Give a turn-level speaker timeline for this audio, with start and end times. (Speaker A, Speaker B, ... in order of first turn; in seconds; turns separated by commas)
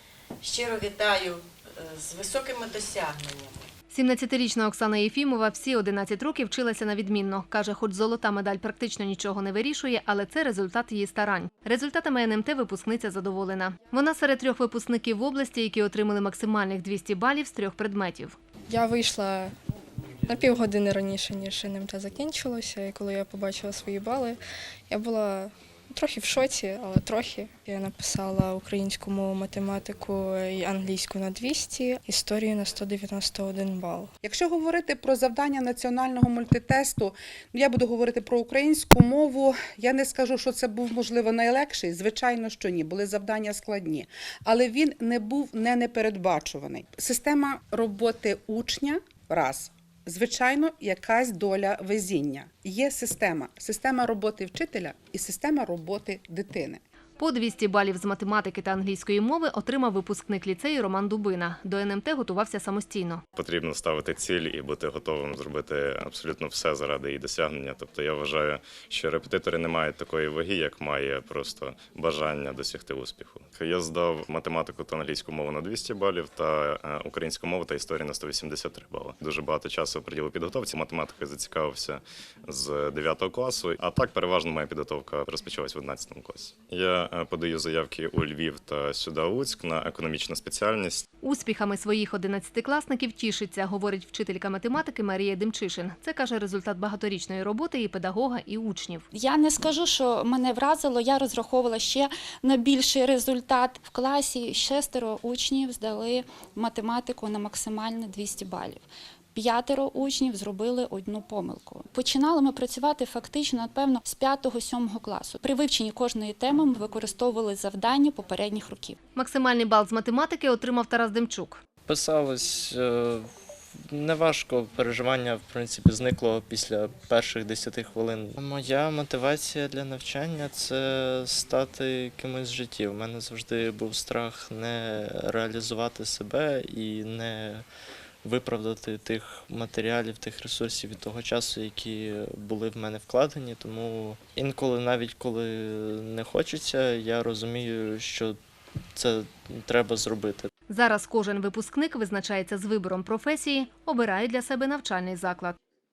Speaker A: 0.4-3.7, Speaker B: 3.9-18.4, Speaker C: 18.7-19.5, Speaker C: 20.2-34.1, Speaker D: 34.2-56.8, Speaker B: 57.2-63.2, Speaker E: 63.4-91.0, Speaker B: 91.2-99.0, Speaker F: 99.1-119.0, Speaker B: 119.2-121.6, Speaker G: 121.9-137.6, Speaker G: 138.2-148.4, Speaker G: 148.9-150.5, Speaker B: 150.7-155.6